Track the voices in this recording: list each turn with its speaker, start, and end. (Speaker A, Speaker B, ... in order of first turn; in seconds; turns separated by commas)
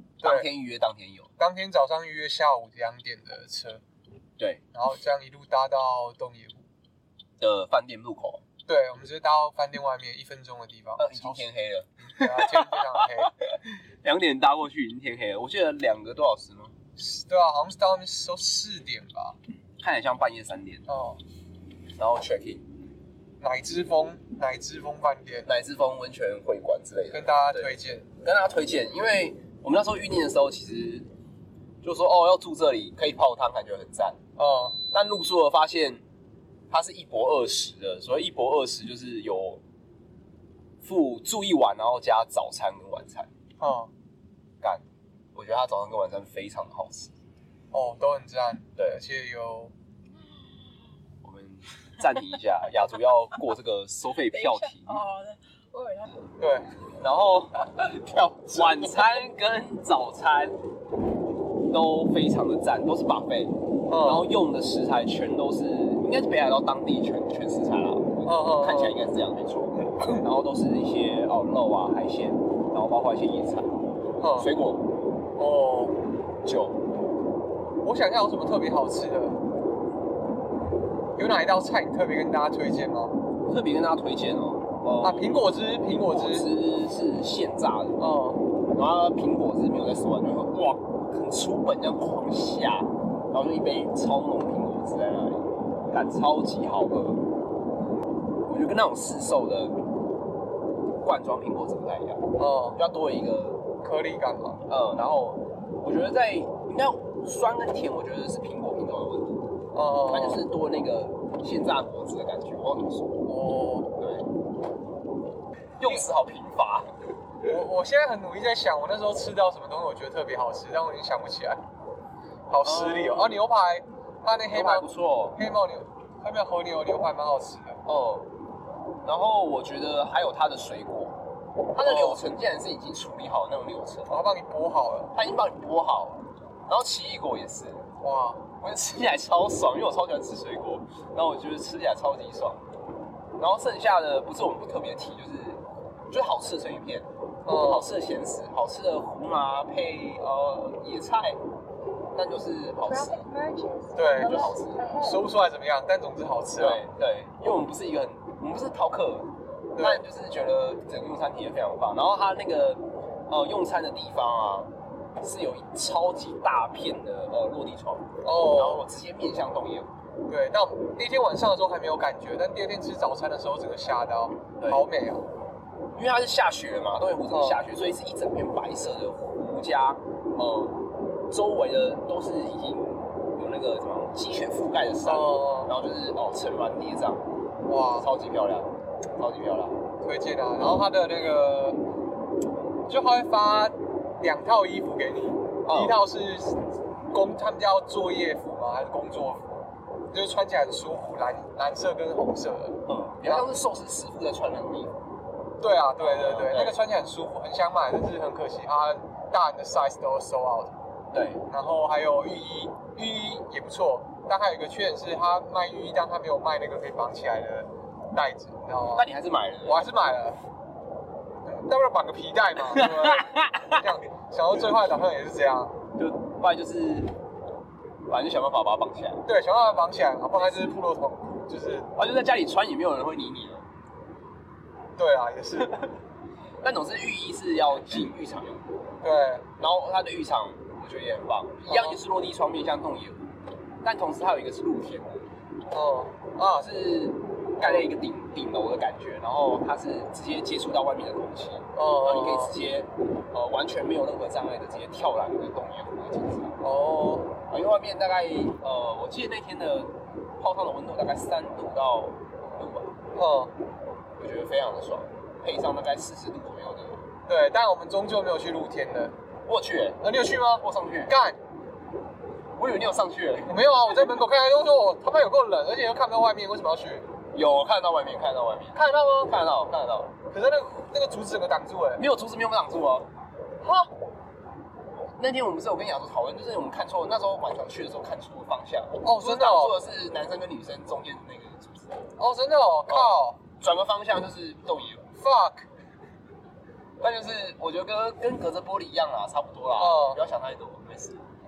Speaker A: 0.2-1.3, Speaker B: 0.2-0.5, Speaker B: 1.4-3.8, Speaker B: 4.7-6.7, Speaker A: 7.4-8.4, Speaker B: 8.7-11.5, Speaker A: 11.0-16.8, Speaker B: 12.1-13.3, Speaker B: 17.0-19.4, Speaker A: 19.8-20.9, Speaker B: 20.9-21.2, Speaker A: 22.0-22.7, Speaker B: 23.4-25.5, Speaker A: 25.4-31.1, Speaker B: 27.1-28.1, Speaker A: 31.8-34.2, Speaker B: 34.4-34.8, Speaker A: 34.9-36.0, Speaker A: 36.7-39.6, Speaker A: 40.8-43.3, Speaker B: 43.6-43.9, Speaker A: 45.4-47.1, Speaker B: 47.7-49.7, Speaker A: 51.2-55.0, Speaker C: 54.3-56.1, Speaker B: 56.4-56.7, Speaker A: 57.0-57.6, Speaker B: 57.8-59.0, Speaker A: 58.5-60.6, Speaker A: 61.7-73.7, Speaker B: 63.9-64.3, Speaker B: 68.2-69.0, Speaker B: 74.2-74.5, Speaker A: 74.3-74.9, Speaker B: 75.4-76.0, Speaker A: 76.4-76.8, Speaker B: 77.8-79.4, Speaker B: 81.2-83.2, Speaker A: 83.5-88.0, Speaker B: 85.0-86.5, Speaker B: 88.0-88.4, Speaker A: 88.7-97.2, Speaker A: 98.5-99.8, Speaker A: 101.0-103.6, Speaker B: 102.4-102.8, Speaker B: 103.8-104.6, Speaker A: 104.7-109.5, Speaker B: 109.7-110.4, Speaker A: 110.1-113.3, Speaker B: 113.2-113.9, Speaker A: 114.0-114.3, Speaker A: 115.8-116.9, Speaker B: 117.5-121.6, Speaker B: 122.5-127.8, Speaker A: 122.6-123.4, Speaker A: 124.5-125.4, Speaker A: 127.8-128.3, Speaker A: 129.1-131.2, Speaker A: 131.8-134.1, Speaker B: 131.8-132.2, Speaker B: 134.1-135.1, Speaker A: 135.1-137.9, Speaker B: 138.0-138.4, Speaker A: 138.6-142.6, Speaker A: 143.4-151.4, Speaker B: 147.4-147.9, Speaker A: 152.1-153.2, Speaker C: 152.8-155.3, Speaker B: 153.9-156.8, Speaker A: 154.2-154.9, Speaker A: 156.6-170.0, Speaker B: 159.8-160.0, Speaker B: 168.2-168.8, Speaker B: 170.3-175.2, Speaker A: 174.6-174.8, Speaker A: 176.0-187.2, Speaker B: 177.3-177.7, Speaker B: 185.1-185.7, Speaker B: 187.7-188.1, Speaker A: 188.0-189.8, Speaker B: 190.0-191.8, Speaker B: 192.9-203.5, Speaker A: 195.7-196.0, Speaker A: 202.9-205.0, Speaker B: 205.6-210.8, Speaker A: 206.0-206.8, Speaker A: 211.1-211.4, Speaker B: 211.5-219.1, Speaker A: 218.9-219.8, Speaker B: 219.7-220.4, Speaker B: 221.4-225.8, Speaker A: 222.6-223.8, Speaker A: 226.0-227.1, Speaker A: 228.1-229.3, Speaker B: 229.3-231.9, Speaker A: 231.9-233.7, Speaker B: 235.0-235.8, Speaker A: 236.6-238.6, Speaker B: 239.0-239.4, Speaker A: 239.6-245.3, Speaker B: 241.7-242.0, Speaker B: 245.7-246.7, Speaker A: 246.4-256.6, Speaker B: 247.6-247.9, Speaker B: 251.8-252.6, Speaker B: 256.6-257.4, Speaker A: 257.5-262.9, Speaker B: 263.1-263.5, Speaker A: 264.2-267.1, Speaker B: 267.3-269.1, Speaker A: 269.5-271.1, Speaker B: 270.0-271.4, Speaker A: 272.6-273.6, Speaker B: 273.5-277.1, Speaker A: 277.3-280.1, Speaker B: 278.8-279.3, Speaker B: 280.3-282.0, Speaker A: 282.0-283.1, Speaker B: 283.6-283.9, Speaker A: 285.2-292.0, Speaker B: 289.0-289.8, Speaker B: 292.2-293.4, Speaker A: 292.9-295.1, Speaker B: 295.2-295.7, Speaker A: 297.0-301.2, Speaker B: 299.8-300.2